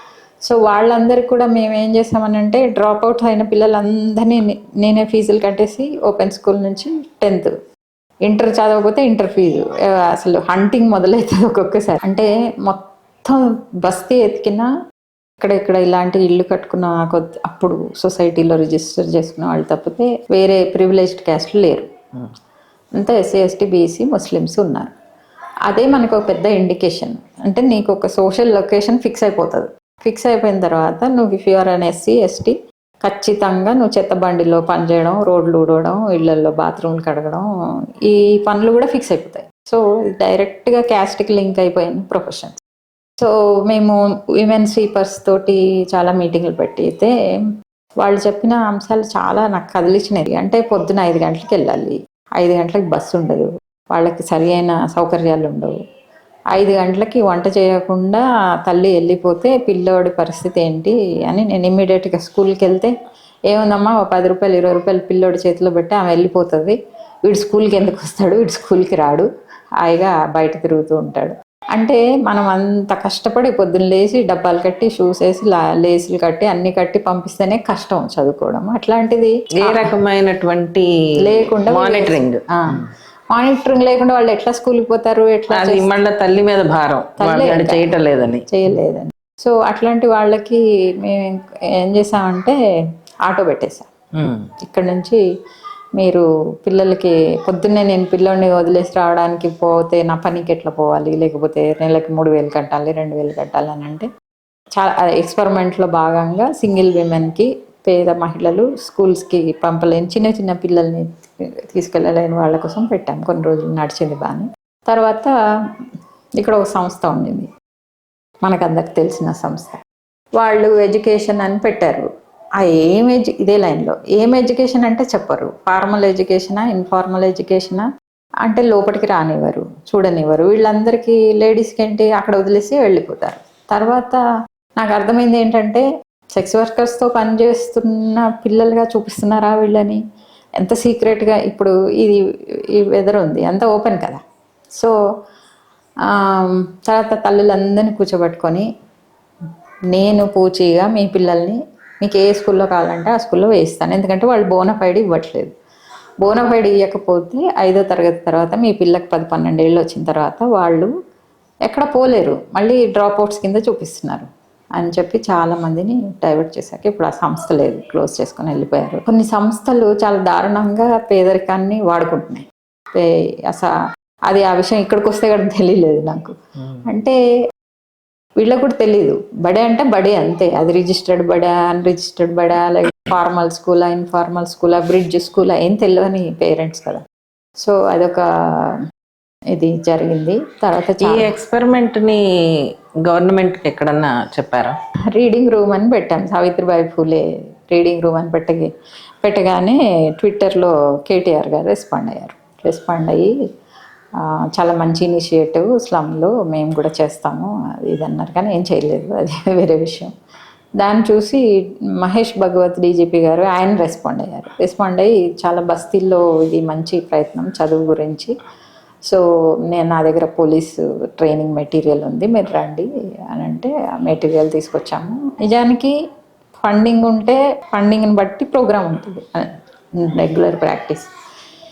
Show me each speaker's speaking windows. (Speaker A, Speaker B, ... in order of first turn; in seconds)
Speaker A: 0.5-7.5, 8.3-14.7, 15.4-22.0, 23.0-24.9, 25.7-37.5, 38.1-42.5, 43.2-47.4, 48.0-55.8, 56.5-62.9, 63.5-69.3, 69.8-79.9, 81.2-86.0, 87.2-87.9, 88.5-92.6, 93.3-93.9, 94.6-95.2, 96.0-104.1, 104.8-111.1, 111.7-115.3, 116.4-117.5, 118.4-119.8, 120.4-122.1, 122.6-127.9, 128.4-134.2, 134.8-140.0, 140.6-144.2, 146.1-148.7, 149.9-155.5, 156.2-160.9, 161.7-173.7, 174.3-177.2, 178.4-187.0, 187.6-188.8, 189.5-191.3, 195.1-198.7, 199.2-203.3, 204.2-210.1, 210.8-211.4, 212.0-218.3, 219.1-225.9, 226.6-231.1
Speaker B: 79.6-82.9, 85.5-88.5, 94.2-94.5, 191.0-194.8